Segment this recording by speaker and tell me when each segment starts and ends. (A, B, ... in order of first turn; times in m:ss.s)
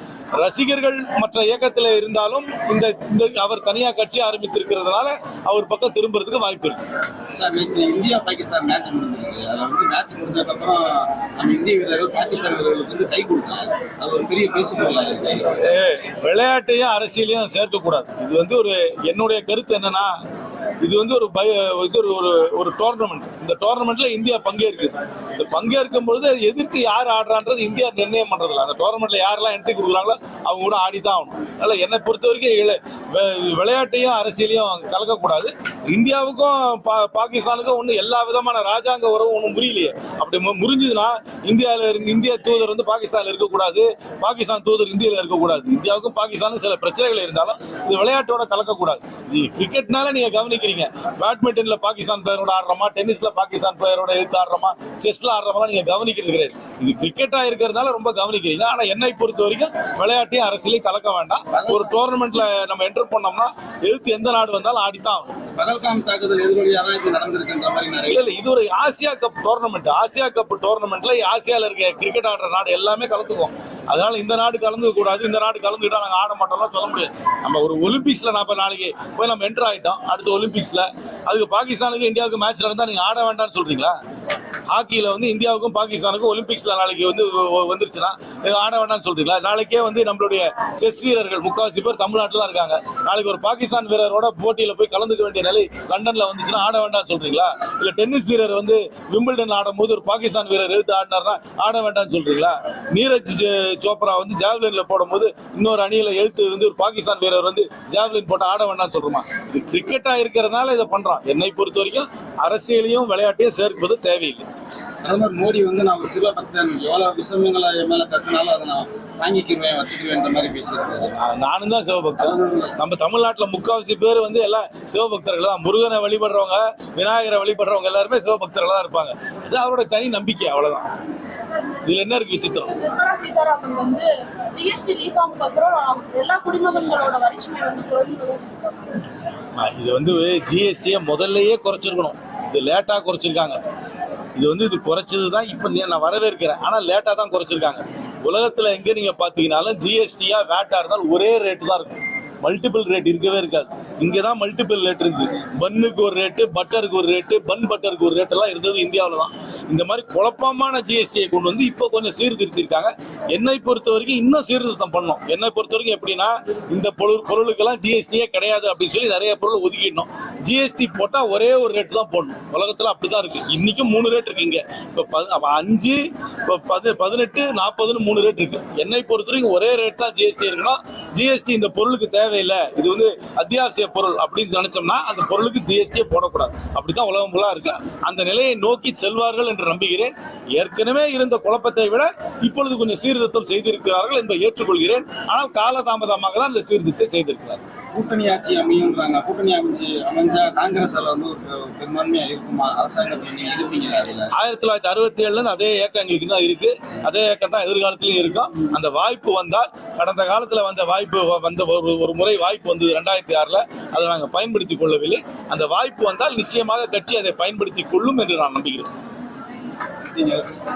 0:00.4-0:06.8 A
0:07.3-0:15.4 B
0:15.6-0:20.1 A
0:20.8-1:05.3 A
1:01.5-1:01.9 B
1:05.5-1:08.2 B
1:08.1-1:23.9 A
1:24.7-1:54.4 A
1:55.0-2:01.1 B
2:01.1-2:10.9 A
2:02.2-2:02.7 B
2:11.8-2:12.7 A
2:12.7-2:19.0 C
2:19.6-2:23.6 A
2:24.3-3:17.6 A
3:17.9-3:24.3 B
3:24.3-3:38.9 A
3:40.1-3:40.6 B